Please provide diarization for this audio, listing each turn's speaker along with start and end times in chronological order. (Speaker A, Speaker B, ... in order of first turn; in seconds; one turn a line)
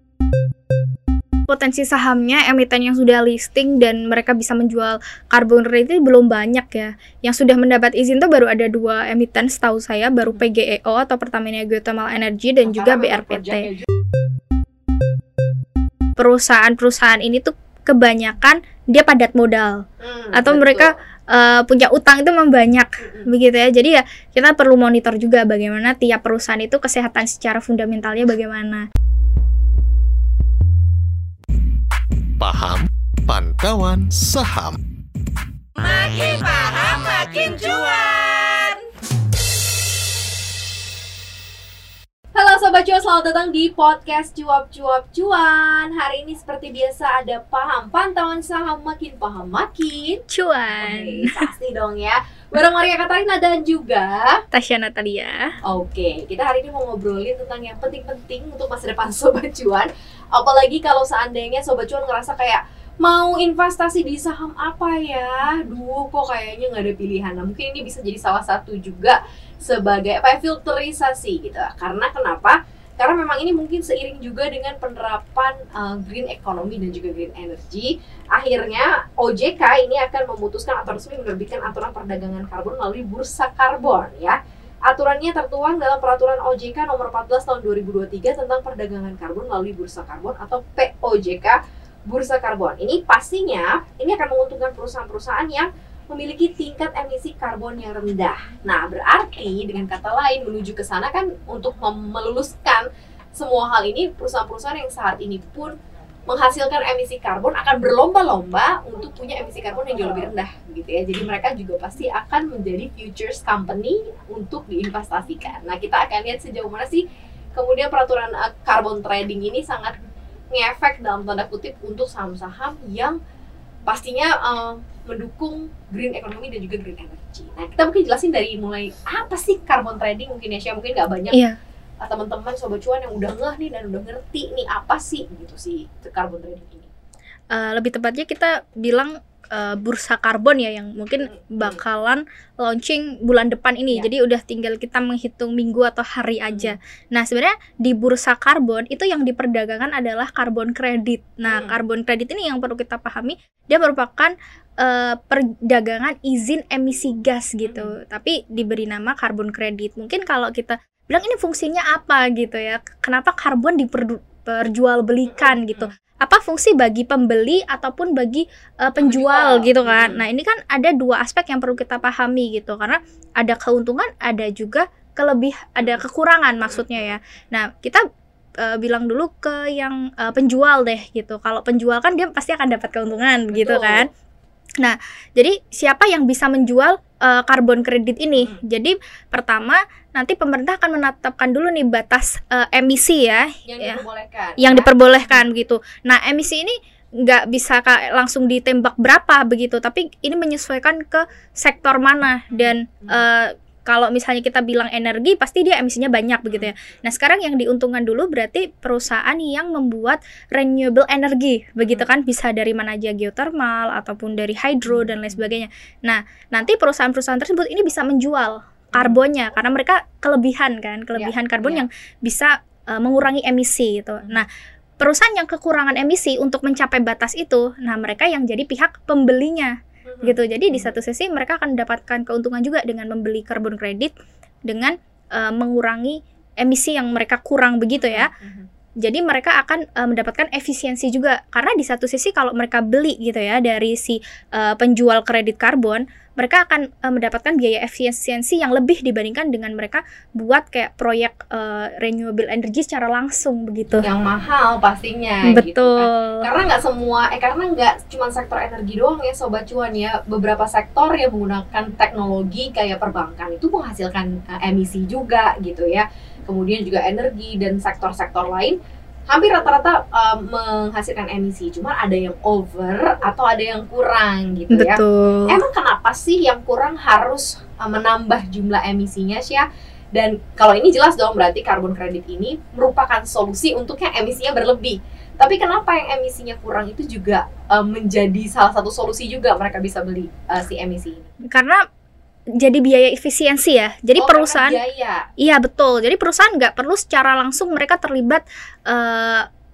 Speaker A: 1.5-13.7
Speaker B: 12.6-13.9
Speaker A: 16.2-19.8
Speaker B: 20.0-20.9
Speaker A: 20.3-28.8
Speaker C: 32.4-34.8
Speaker B: 36.1-38.5
Speaker B: 42.3-54.4
Speaker A: 50.3-51.5
Speaker A: 54.5-55.5
Speaker B: 55.6-102.8
Speaker B: 103.3-105.7
Speaker B: 106.3-117.0
Speaker B: 117.5-120.0
Speaker B: 120.5-123.2
Speaker B: 123.9-131.4
Speaker A: 131.3-131.6
Speaker B: 132.0-136.9
Speaker A: 137.5-178.0
Speaker B: 141.3-141.8
Speaker B: 151.5-151.8
Speaker B: 157.6-157.9
Speaker B: 165.3-165.9
Speaker B: 169.0-170.2
Speaker B: 176.7-177.0
Speaker A: 178.6-184.1
Speaker B: 183.5-184.1
Speaker A: 184.8-194.0
Speaker B: 193.7-195.5
Speaker A: 194.6-224.5
Speaker B: 202.5-203.2
Speaker B: 214.8-215.5
Speaker B: 221.1-221.8
Speaker A: 225.0-234.1
Speaker B: 230.1-230.9
Speaker A: 234.7-238.3
Speaker B: 238.0-238.7
Speaker A: 239.0-254.1
Speaker B: 254.0-268.8
Speaker A: 255.4-256.5
Speaker B: 269.3-291.3
Speaker A: 274.7-275.6
Speaker A: 291.5-291.8
Speaker A: 292.6-294.8
Speaker B: 294.2-295.2
Speaker A: 295.4-299.4